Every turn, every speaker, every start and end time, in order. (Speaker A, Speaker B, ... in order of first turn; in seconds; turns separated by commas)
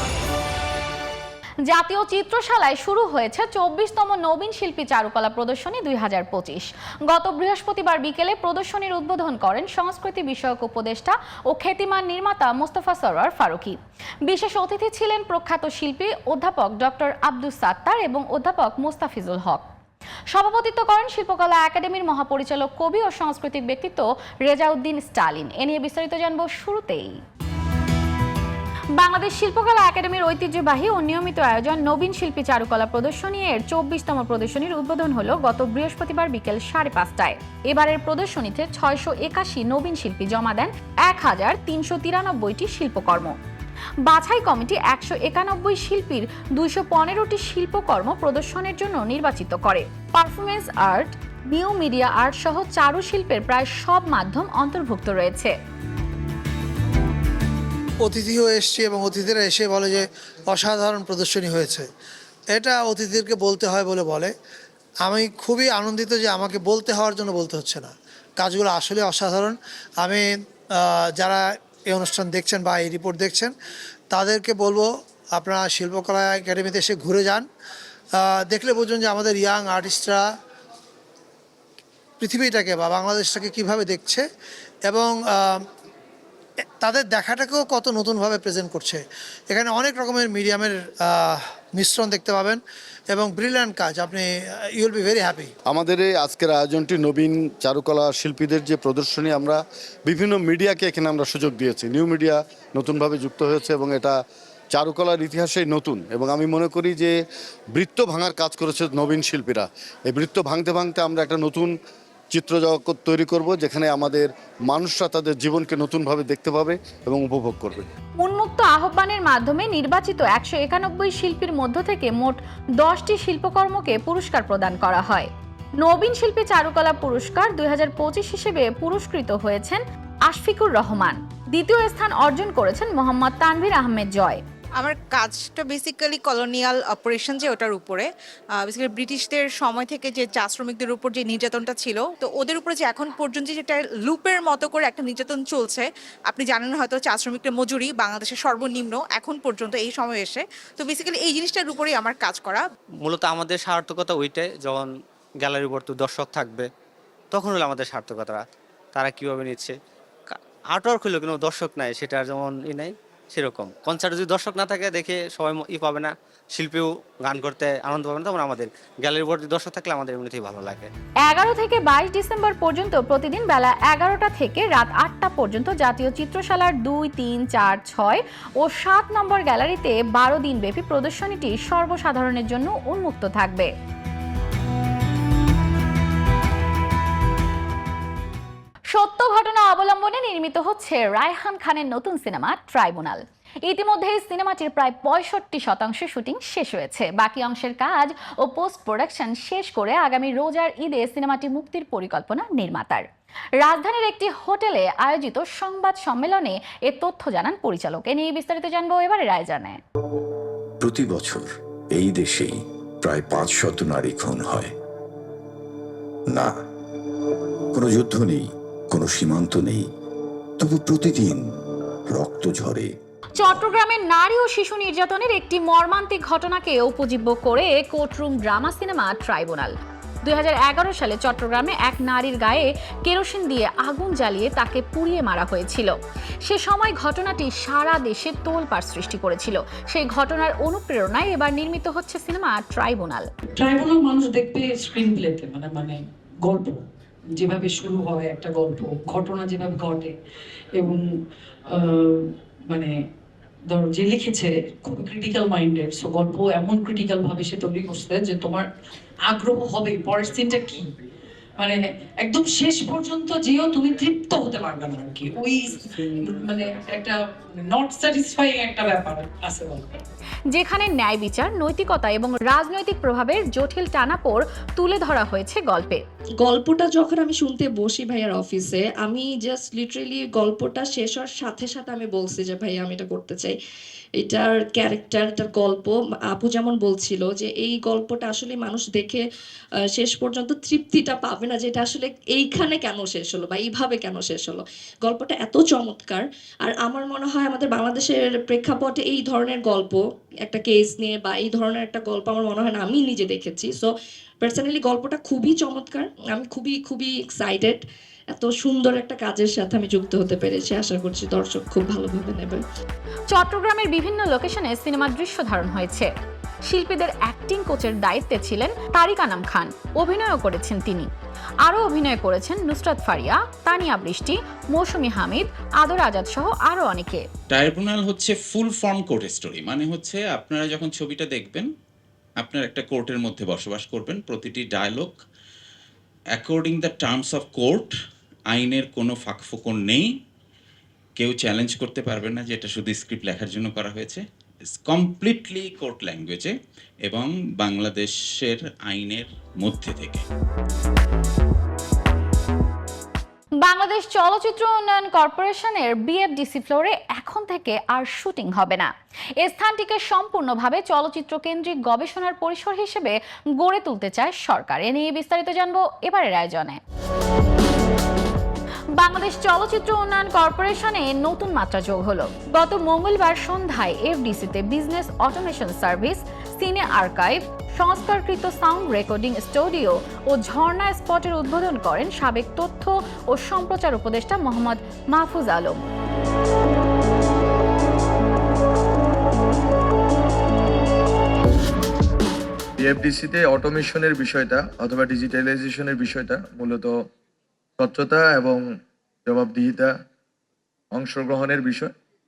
Speaker A: 1.7-19.6, Speaker A: 20.3-27.2, Speaker A: 29.0-43.4, Speaker A: 44.0-55.5, Speaker B: 58.0-61.9, Speaker B: 62.5-64.3, Speaker B: 65.0-73.5, Speaker B: 74.1-77.5, Speaker B: 78.2-80.2, Speaker B: 82.2-84.2, Speaker B: 84.8-85.6, Speaker B: 86.8-95.5, Speaker C: 95.7-104.1, Speaker C: 104.7-107.1, Speaker C: 107.7-111.7, Speaker C: 112.3-117.8, Speaker A: 118.2-125.3, Speaker A: 125.8-134.4, Speaker D: 134.8-152.6, Speaker E: 153.0-154.9, Speaker E: 155.4-156.7, Speaker E: 157.3-158.4, Speaker E: 158.9-159.7, Speaker E: 160.7-170.9, Speaker A: 171.2-183.7, Speaker A: 188.9-203.1, Speaker A: 203.6-209.8, Speaker F: 210.8-214.7, Speaker F: 217.7-219.8, Speaker F: 220.6-221.4, Speaker F: 222.1-222.9, Speaker A: 223.4-229.7, Speaker A: 230.2-243.3, Speaker G: 243.6-246.8, Speaker G: 247.4-250.1, Speaker G: 250.8-251.1, Speaker G: 251.7-252.9, Speaker G: 253.7-258.7, Speaker G: 259.3-260.9, Speaker G: 261.6-269.8, Speaker A: 270.5-276.0, Speaker H: 276.4-283.5, Speaker H: 284.2-289.2, Speaker H: 289.9-303.9, Speaker H: 304.4-307.8, Speaker H: 308.3-312.6, Speaker A: 313.3-316.1, Speaker A: 316.7-321.1, Speaker A: 321.6-327.2, Speaker I: 327.5-331.7, Speaker I: 332.4-335.2, Speaker I: 336.3-337.9, Speaker I: 338.5-340.1, Speaker I: 341.2-346.5, Speaker I: 347.0-350.2, Speaker A: 353.6-366.8, Speaker A: 369.0-385.8, Speaker J: 392.8-396.9, Speaker J: 397.8-398.6, Speaker J: 399.2-399.9, Speaker J: 400.9-401.9